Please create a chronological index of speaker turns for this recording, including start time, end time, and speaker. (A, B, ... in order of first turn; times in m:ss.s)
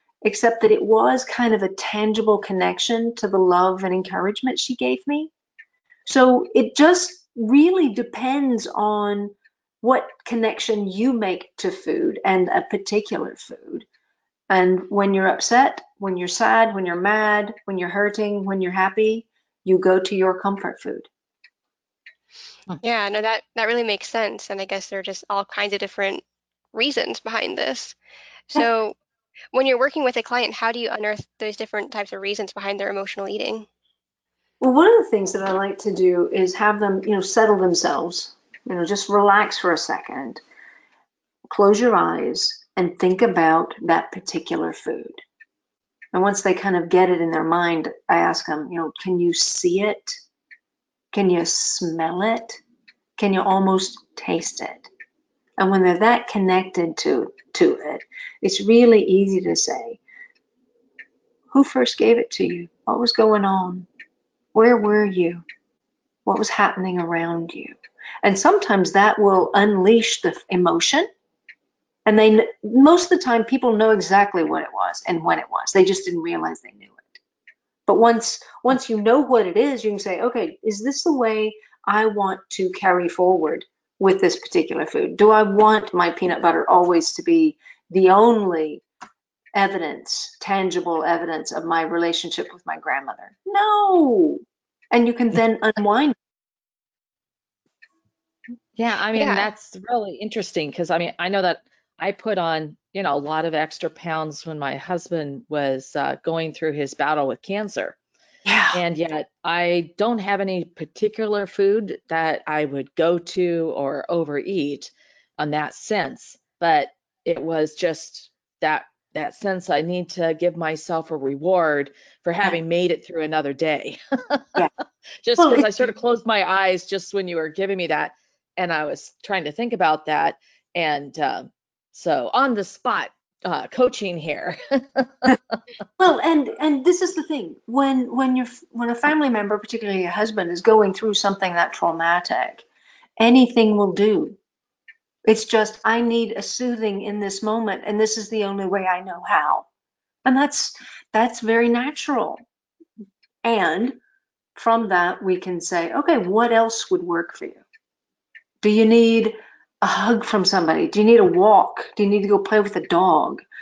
0:00.2-0:05.3 A
0:06.0-0:13.8 A
0:14.5-0:21.1 A
0:22.8-0:26.2 B
0:26.7-0:28.0 B
0:28.5-0:28.9 B
0:29.5-0:33.7 B
0:34.6-0:40.4 A
0:41.5-0:45.2 A
0:46.1-0:50.2 A
0:51.1-0:52.6 A
0:53.2-0:54.9 A
0:55.6-1:00.0 A
1:01.5-1:03.9 A
1:04.5-1:05.4 A
1:06.2-1:11.1 A
1:12.0-1:17.2 A
1:17.8-1:28.8 A
1:29.5-1:36.2 A
1:38.8-1:48.0 C
1:39.2-1:39.5 B
1:48.4-1:48.8 A
1:48.7-2:04.5 C
2:05.2-2:15.4 C
2:05.4-2:05.9 A
2:16.0-2:22.6 A
2:23.2-2:24.4 A
2:25.2-2:29.7 A
2:30.2-2:32.4 A
2:33.4-2:34.0 A
2:34.6-2:37.6 A
2:38.6-2:43.4 A